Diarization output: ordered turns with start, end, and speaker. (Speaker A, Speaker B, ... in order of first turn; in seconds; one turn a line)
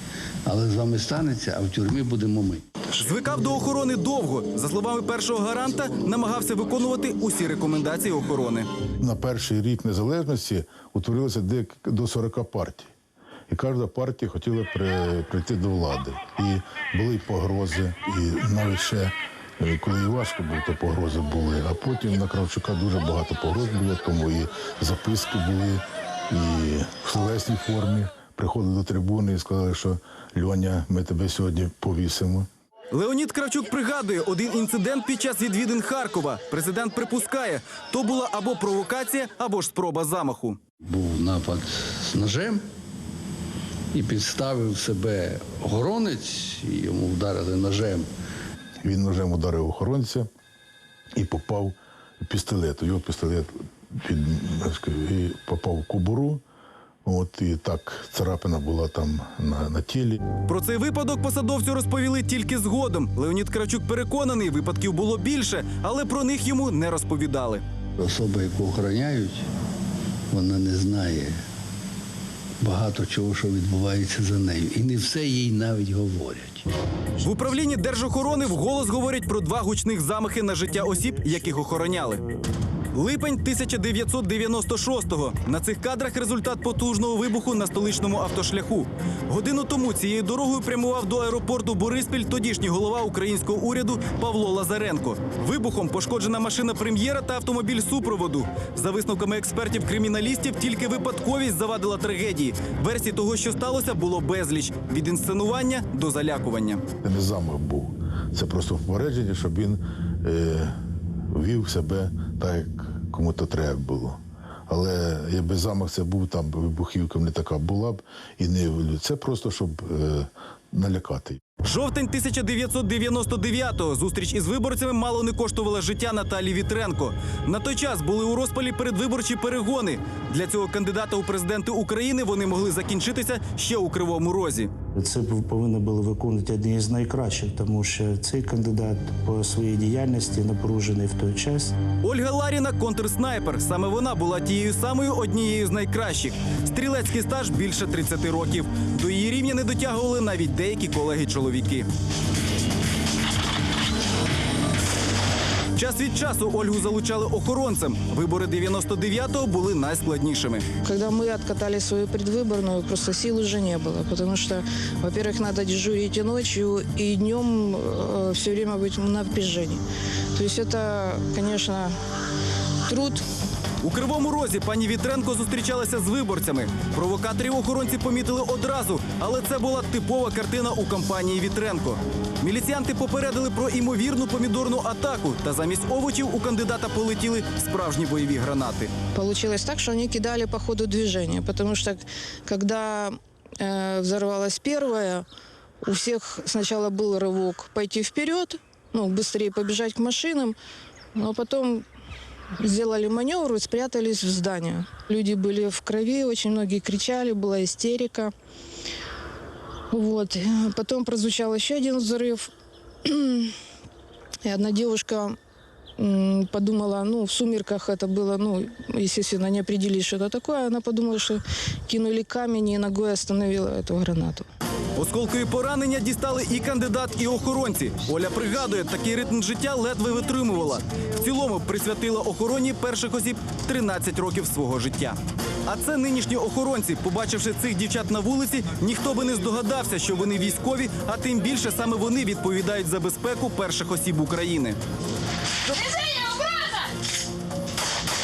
Speaker A: 0.5-2.6
Speaker B: 2.9-8.7
Speaker C: 9.0-12.9
Speaker C: 13.5-32.5
Speaker B: 32.9-40.6
Speaker A: 40.9-42.6
Speaker A: 43.9-48.1
Speaker C: 48.8-50.3
Speaker C: 51.2-56.4
Speaker C: 57.0-60.2
Speaker B: 60.5-67.6
Speaker A: 68.0-69.5
Speaker A: 70.3-71.4
Speaker A: 72.6-76.7
Speaker B: 77.2-82.2
Speaker D: 80.7-82.4
Speaker B: 83.0-106.8
Speaker C: 107.0-110.7
Speaker C: 111.3-121.4
Speaker B: 121.6-134.7
Speaker D: 135.0-141.7
Speaker B: 142.0-151.9
Speaker B: 155.8-160.7
Speaker E: 160.8-169.8
Speaker E: 170.3-171.9
Speaker E: 172.9-173.2
Speaker B: 173.8-188.9
Speaker E: 189.1-195.2
Speaker E: 195.8-200.6
Speaker E: 201.2-201.8
Speaker E: 202.6-208.3
Speaker E: 209.9-212.5
Speaker E: 213.1-213.5
Speaker E: 214.4-215.3
Speaker E: 216.0-224.5
Speaker B: 225.0-244.8